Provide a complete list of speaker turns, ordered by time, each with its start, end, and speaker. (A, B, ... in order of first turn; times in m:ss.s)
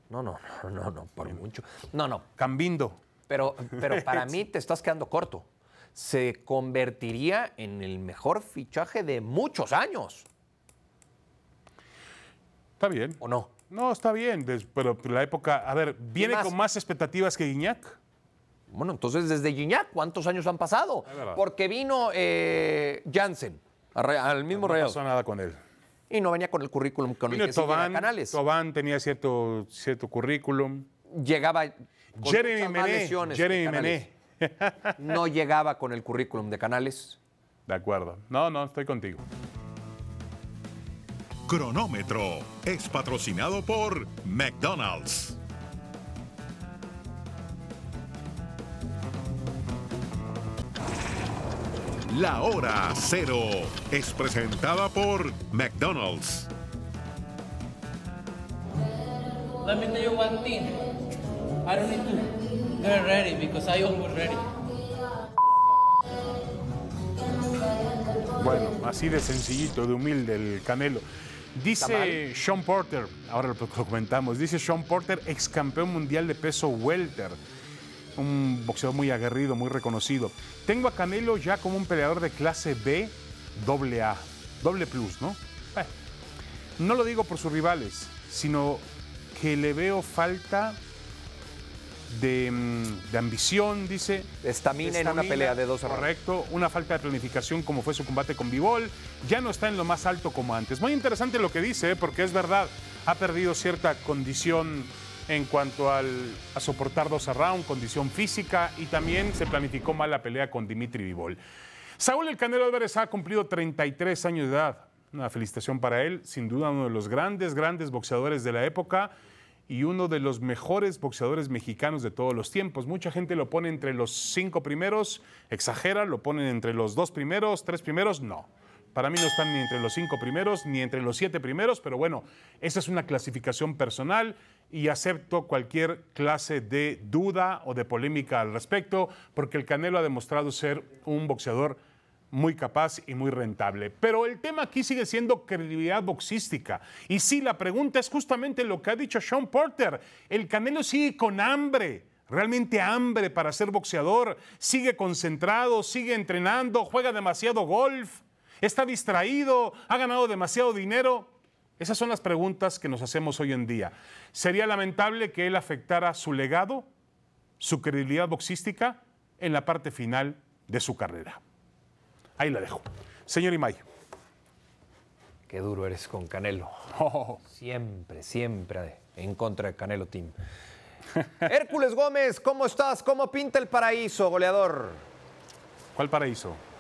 0:00.1-0:02.3 A
0:02.4-0:03.0 B
0:03.3-0:10.3 A
0:03.7-0:04.4 B
0:12.8-0:18.0 B
0:13.2-0:13.5 A
0:16.2-0:16.5 A
0:18.7-0:25.0 A
0:21.1-0:21.4 B
0:24.5-0:25.6 B
0:26.1-0:28.4 A
0:27.3-0:30.9 B
0:31.1-0:34.1 A
0:32.2-0:35.2 B
0:35.0-0:37.2 A
0:37.7-0:39.2 B
0:41.5-0:45.4 C
0:52.1-0:56.5 C
0:59.6-1:00.8 D
1:01.6-1:04.5 D
1:08.4-1:11.0 B
1:11.6-1:17.4 B
1:11.8-1:12.2 A
1:18.2-1:25.9 B
1:26.8-1:30.8 B
1:32.1-1:34.3 B
1:34.4-1:36.1 A
1:34.8-1:51.4 B
1:52.0-1:59.1 B
1:59.7-2:21.8 B
2:22.3-2:46.9 B
2:47.6-2:51.4 B
2:52.4-2:53.8 B
2:55.5-2:56.8 A
2:56.9-2:57.4 B
2:57.4-3:00.4 A
3:01.4-3:05.0 A
3:06.0-3:06.6 B